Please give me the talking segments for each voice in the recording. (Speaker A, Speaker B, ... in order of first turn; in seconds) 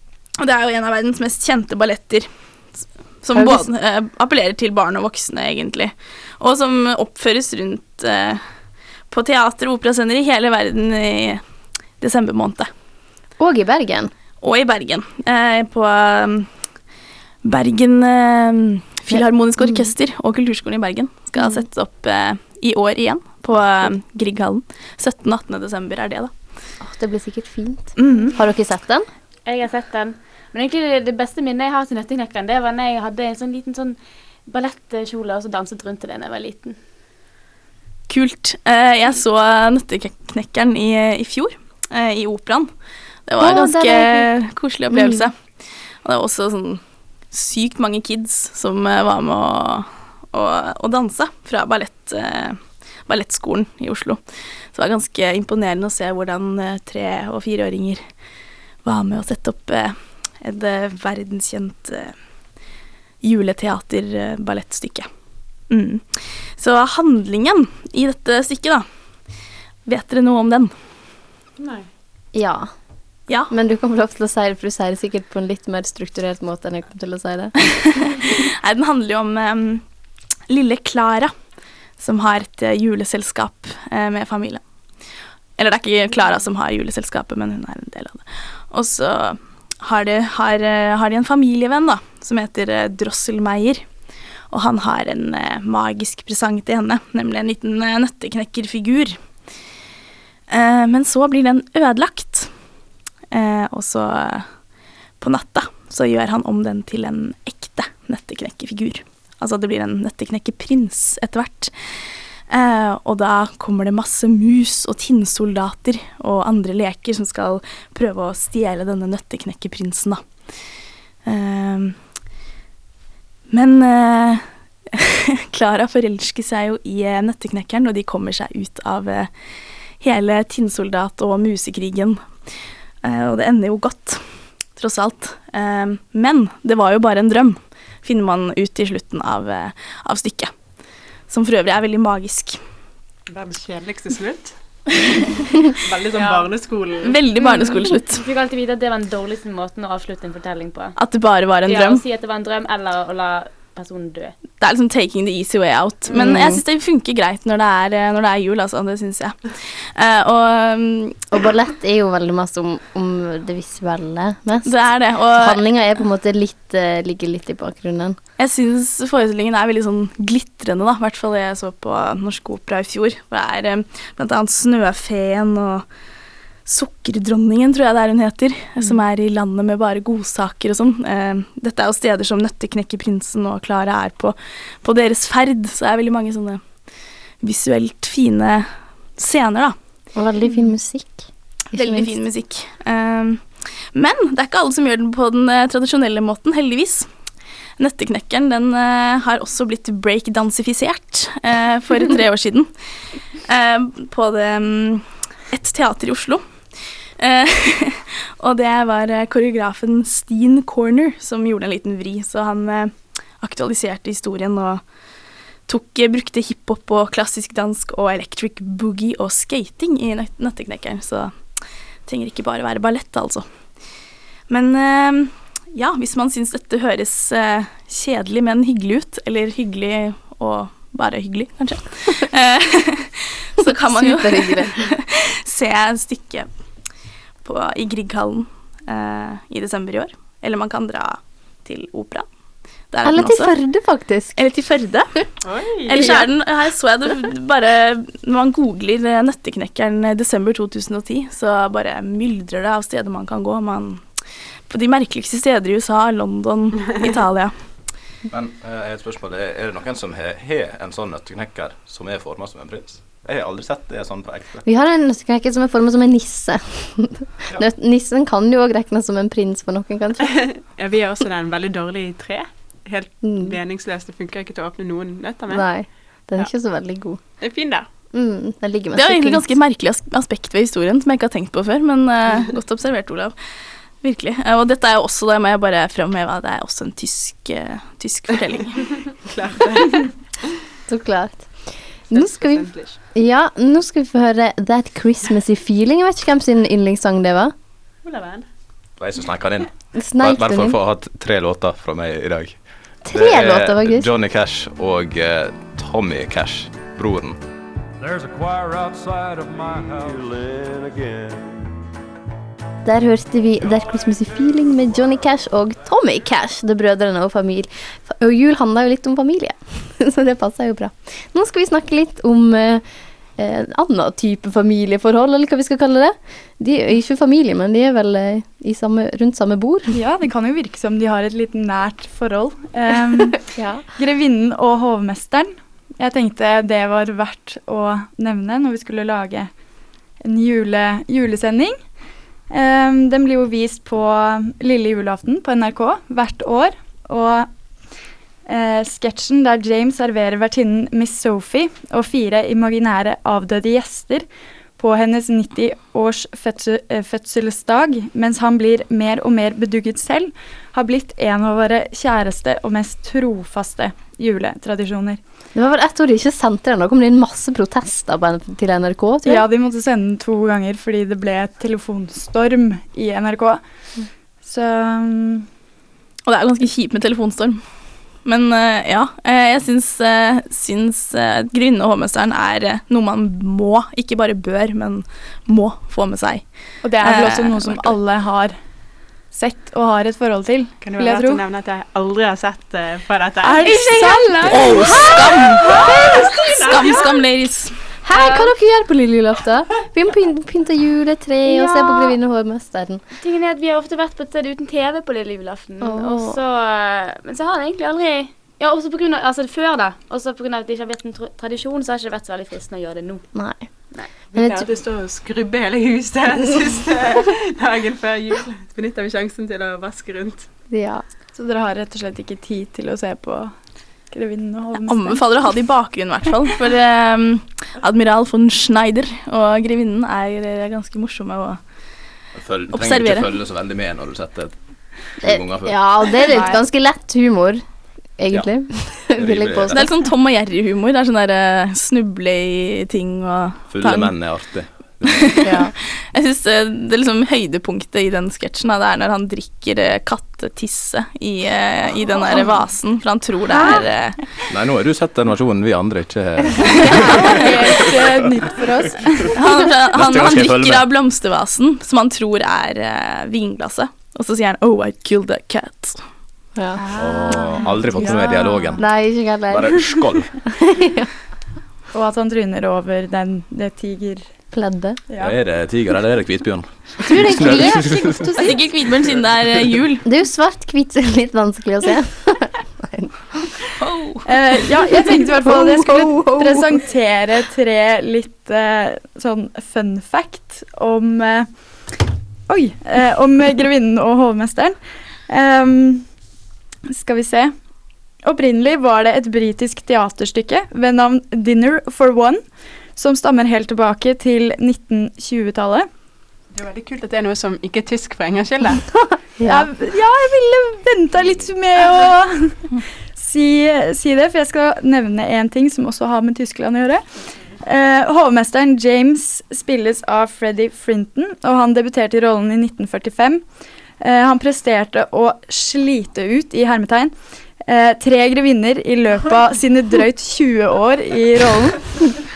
Speaker A: 0.4-8.4, 9.1-11.4, 12.0-12.7, 14.4-16.8, 17.4-26.6, 28.0-28.3, 38.1-62.2, 63.2-65.1, 65.7-68.9, 69.8-70.7, 77.7-79.8, 80.5-81.3, 82.0-99.6, 100.5-102.7, 103.3-104.6, 105.2-122.2, 123.5-140.5, 141.3-142.6, 147.0-148.2, 151.0-152.0, 154.6-161.2, 164.6-165.6, 168.4-175.9, 176.7-189.8, 191.7-197.1, 197.8-202.7, 203.4-214.9, 215.7-223.5, 224.5-236.5, 237.4-242.3, 242.9-243.5, 244.4-257.5, 278.9-283.4, 284.0-289.0, 376.2-387.9, 393.7-395.6, 396.5-397.9, 424.8-431.6, 432.7-433.3, 439.7-444.2, 445.1-454.2, 459.4-466.0, 478.4-480.1, 483.8-484.3
Speaker B: 3.3-3.7, 13.4-14.1, 19.1-19.9, 21.4-21.7, 26.8-29.1, 43.4-44.3, 44.9-45.3, 72.3-72.7, 73.4-77.6, 156.1-156.6, 161.3-168.2, 190.2-192.2, 233.7-234.8, 243.1-244.4, 246.0-246.3, 264.6-270.5, 273.2-273.6, 275.5-277.2, 278.1-279.6, 290.9-297.5, 299.9-300.8, 303.1-304.1, 312.8-322.8, 323.4-330.0, 333.5-333.9, 365.6-369.5, 398.0-403.0, 405.8-406.4, 413.3-413.7, 414.3-414.7, 420.7-421.0, 435.2-437.6, 438.2-439.8, 445.4-445.7, 466.6-466.8, 468.8-469.9, 470.6-471.1, 474.5-475.0, 477.1-478.3, 480.1-483.2, 485.4-486.7, 509.4-509.7
Speaker C: 29.4-36.8, 146.2-146.5, 147.4-151.0, 151.7-154.4, 398.1-398.4, 403.2-413.3
Speaker D: 71.6-71.9, 143.3-144.6, 145.8-147.2, 245.4-246.0, 270.5-275.6, 277.4-277.9, 289.0-290.1, 292.1-293.0, 298.1-298.5, 390.8-393.9, 395.7-397.0, 414.4-420.5, 506.5-508.9
Speaker E: 258.3-264.6, 299.0-307.4, 432.3-434.6, 435.1-436.1, 438.3-439.9, 443.7-445.4, 454.5-458.4, 459.9-460.9, 467.0-468.9, 469.5-470.3, 475.2-478.6, 479.1-479.7
Speaker F: 308.0-311.6
Speaker G: 329.9-339.5, 340.2-341.8, 342.5-347.5, 348.5-365.2, 369.2-373.6, 374.4-375.5, 386.8-388.6, 389.3-391.4, 393.4-397.1, 421.3-423.6, 424.1-425.6, 452.1-452.7, 453.5-453.9, 456.7-459.6, 466.8-468.8, 471.9-474.3, 475.1-475.4, 484.3-491.9, 492.5-496.1, 496.9-497.6, 498.2-505.9, 509.4-517.0, 517.6-523.4, 524.0-532.1